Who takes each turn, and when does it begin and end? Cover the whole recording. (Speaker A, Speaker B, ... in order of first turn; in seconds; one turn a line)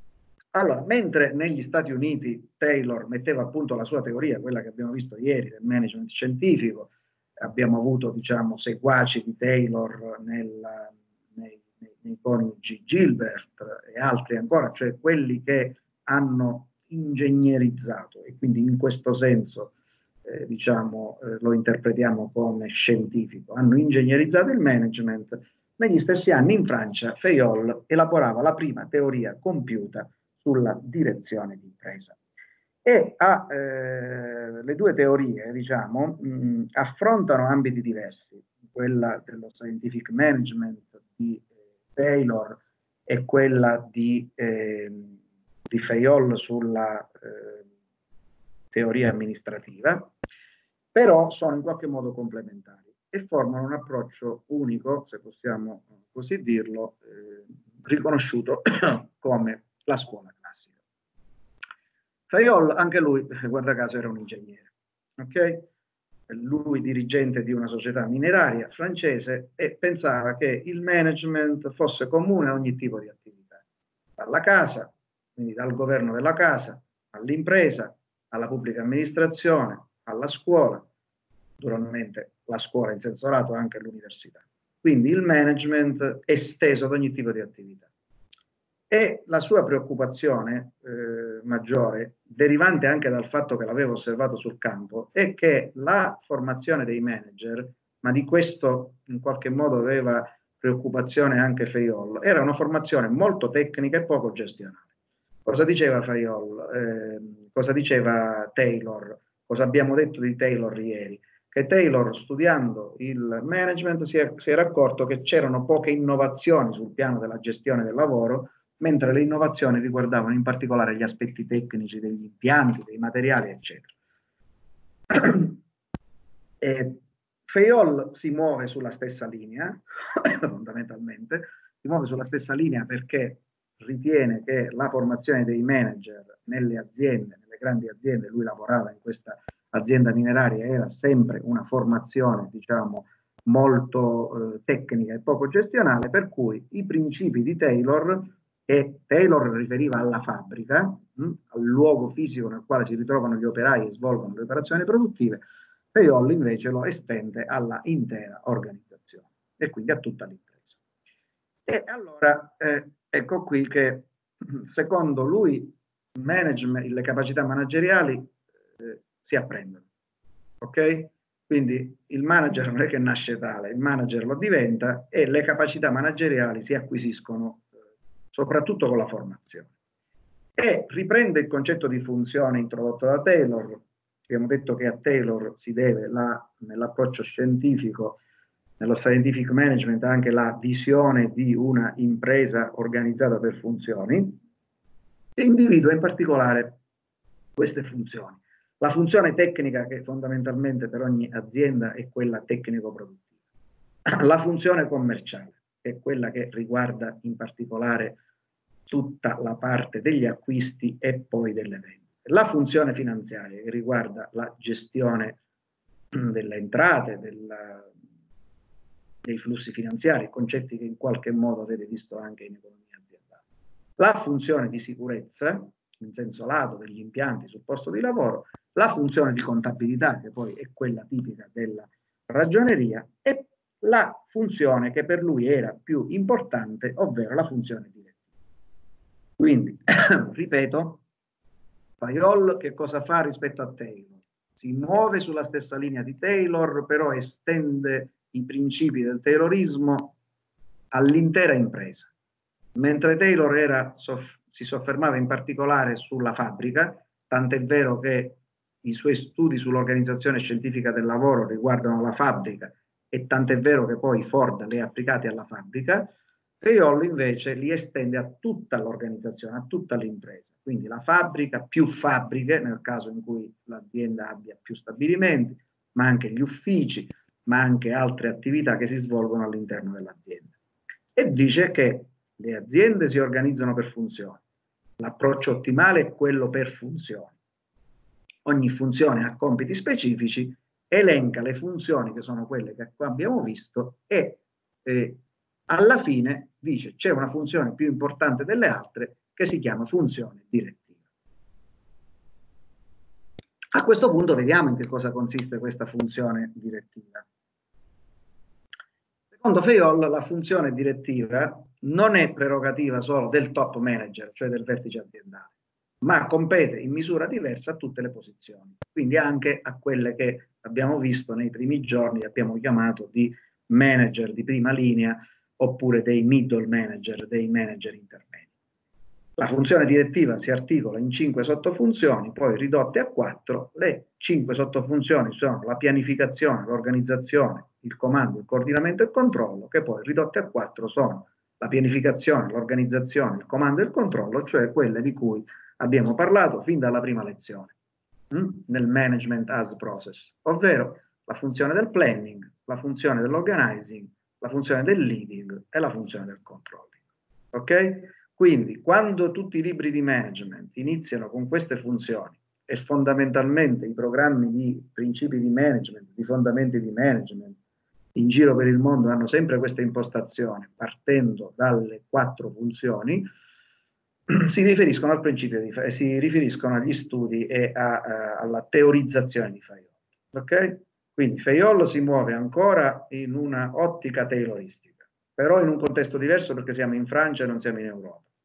Speaker A: 0.5-19.7
Speaker A: 20.3-32.2
Speaker A: 32.9-45.2
Speaker A: 45.7-47.7
Speaker A: 48.7-50.1
Speaker A: 51.0-60.7
Speaker A: 62.3-64.7
Speaker A: 65.2-65.7
Speaker A: 66.3-73.6
Speaker A: 74.2-80.9
Speaker A: 81.6-87.9
Speaker A: 88.9-104.9
Speaker A: 105.5-123.9
Speaker A: 125.1-125.6
Speaker A: 126.6-155.4
Speaker A: 155.9-160.8
Speaker A: 161.7-169.8
Speaker A: 170.6-177.7
Speaker A: 178.3-179.7
Speaker A: 180.6-188.2
Speaker A: 188.8-194.4
Speaker A: 195.4-196.8
Speaker A: 197.6-203.2
Speaker A: 204.1-208.2
Speaker A: 208.9-215.4
Speaker A: 216.1-217.9
Speaker A: 219.2-223.3
Speaker A: 224.0-238.1
Speaker A: 239.4-241.0
Speaker A: 242.0-250.2
Speaker A: 250.9-252.1
Speaker A: 252.8-280.5
Speaker A: 281.1-284.4
Speaker A: 285.0-287.3
Speaker A: 288.4-300.9
Speaker A: 303.7-307.2
Speaker A: 309.4-315.5
Speaker A: 316.0-328.5
Speaker A: 329.4-347.7
Speaker A: 348.3-356.9
Speaker A: 357.5-367.6
Speaker A: 368.1-373.3
Speaker A: 374.3-388.2